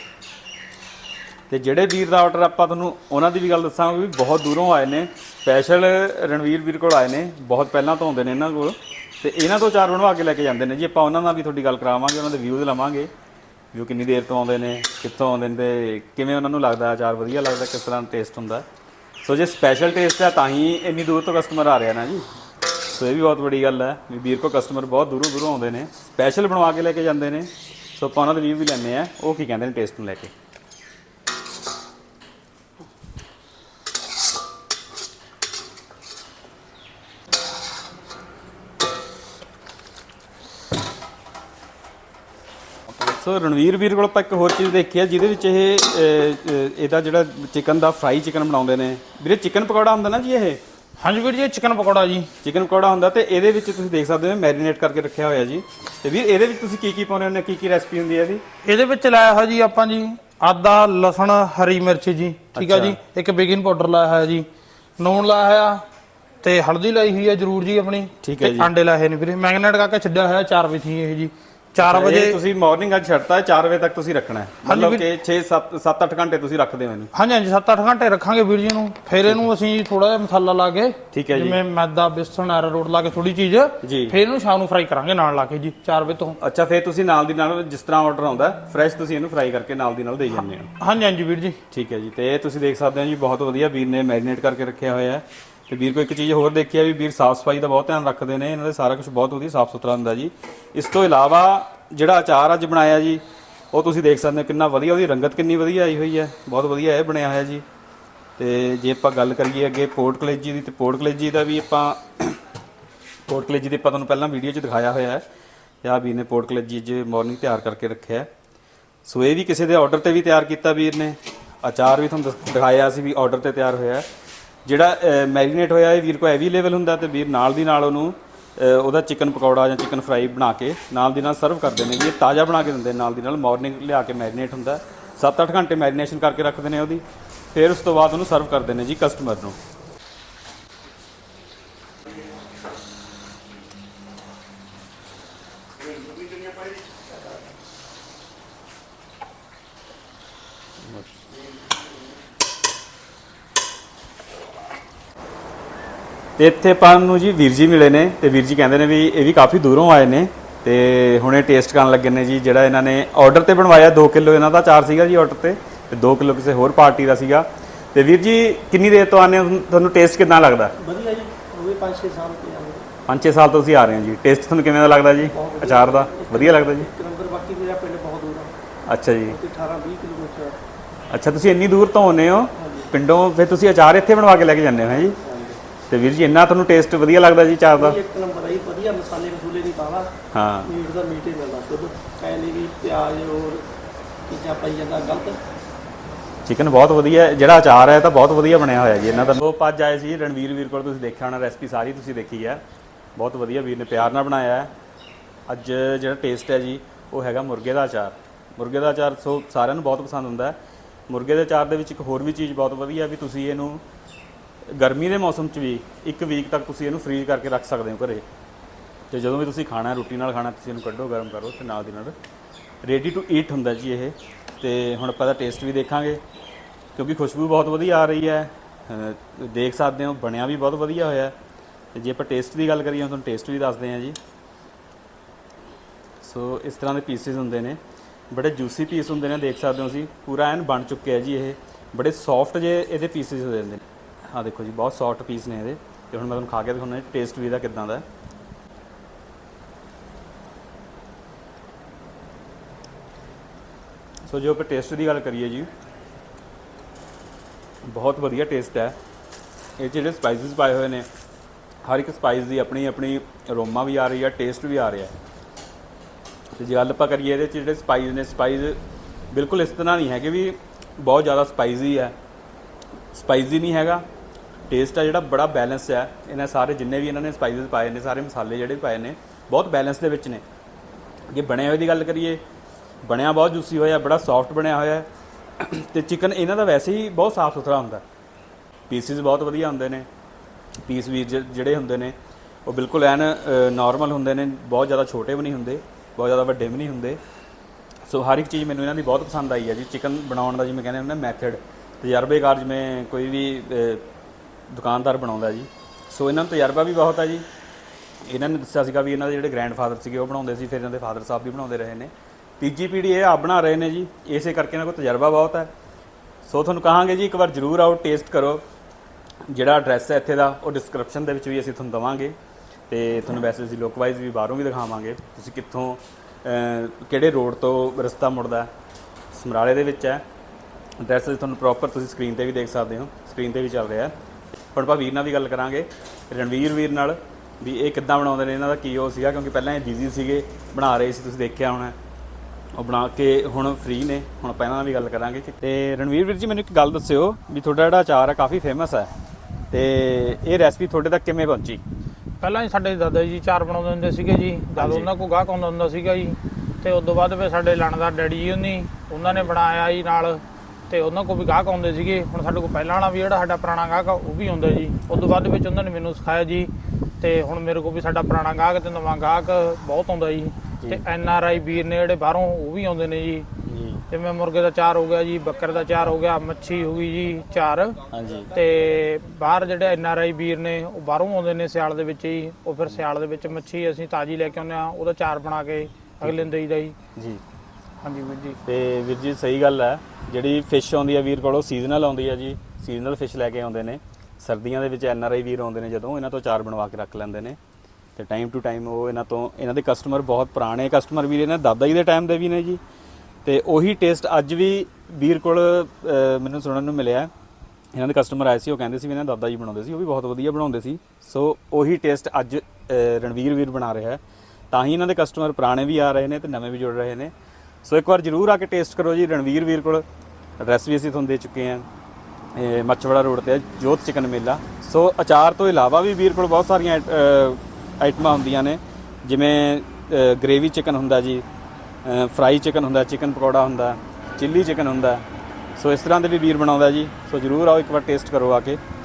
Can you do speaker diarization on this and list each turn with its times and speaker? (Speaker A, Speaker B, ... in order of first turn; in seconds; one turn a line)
Speaker A: 1.5-13.1
Speaker A: 13.7-18.6
Speaker A: 19.2-22.2
Speaker A: 22.9-30.3
Speaker A: 42.9-50.6
Speaker B: 51.0-52.3
Speaker A: 52.4-58.4
Speaker B: 58.6-64.5
Speaker A: 62.5-63.0
Speaker B: 65.0-65.8
Speaker B: 66.4-72.4
Speaker A: 68.2-68.7
Speaker A: 71.8-77.1
Speaker B: 74.6-75.0
Speaker B: 77.1-86.4
Speaker A: 81.1-81.6
Speaker A: 83.8-84.2
Speaker A: 86.4-90.7
Speaker B: 90.8-91.6
Speaker A: 91.7-107.6
Speaker A: 108.4-112.3
Speaker A: 113.3-115.2
Speaker A: 115.8-118.3
Speaker A: 119.0-124.0
Speaker A: 124.7-137.0
Speaker A: 137.5-139.6
Speaker A: 156.4-170.7
Speaker C: 170.8-172.8
Speaker A: 173.1-176.9
Speaker C: 175.3-178.5
Speaker A: 178.9-179.4
Speaker C: 179.2-180.6
Speaker A: 181.1-185.2
Speaker C: 182.6-182.9
Speaker C: 185.1-185.6
Speaker A: 185.9-188.0
Speaker C: 187.8-190.1
Speaker A: 190.3-190.7
Speaker C: 190.7-193.6
Speaker C: 194.3-195.4
Speaker A: 196.4-202.6
Speaker A: 203.2-204.7
Speaker A: 205.5-210.6
Speaker A: 211.1-213.8
Speaker A: 214.8-218.2
Speaker A: 219.1-222.1
Speaker A: 222.8-226.2
Speaker A: 226.9-231.3
Speaker A: 231.9-234.2
Speaker A: 236.2-237.8
Speaker A: 238.3-248.0
Speaker A: 254.3-255.7
Speaker A: 257.9-259.0
Speaker A: 259.8-261.0
Speaker A: 261.8-265.1
Speaker A: 266.6-268.8
Speaker A: 269.3-272.1
Speaker A: 273.1-274.0
Speaker A: 274.7-280.4
Speaker A: 281.3-282.4
Speaker A: 283.0-285.1
Speaker A: 285.6-288.0
Speaker A: 288.9-290.1
Speaker A: 290.8-292.1
Speaker A: 292.7-297.2
Speaker A: 298.1-304.0
Speaker A: 304.7-307.4
Speaker A: 308.2-315.7
Speaker A: 316.4-318.6
Speaker A: 319.5-322.4
Speaker A: 322.9-328.7
Speaker A: 329.3-330.2
Speaker A: 331.0-334.1
Speaker A: 334.7-341.9
Speaker A: 342.8-349.1
Speaker A: 349.7-351.8
Speaker B: 352.4-373.4
Speaker A: 354.8-355.1
Speaker A: 359.2-359.5
Speaker A: 373.6-374.0
Speaker B: 374.1-378.0
Speaker A: 378.1-378.5
Speaker B: 378.5-386.9
Speaker A: 386.2-386.5
Speaker A: 387.1-387.4
Speaker B: 388.0-388.6
Speaker A: 388.6-397.6
Speaker A: 398.2-402.8
Speaker A: 403.4-407.3
Speaker A: 407.9-414.2
Speaker A: 414.7-417.3
Speaker A: 417.8-420.0
Speaker A: 420.6-421.8
Speaker A: 422.5-431.4
Speaker A: 432.0-435.2
Speaker A: 435.8-438.8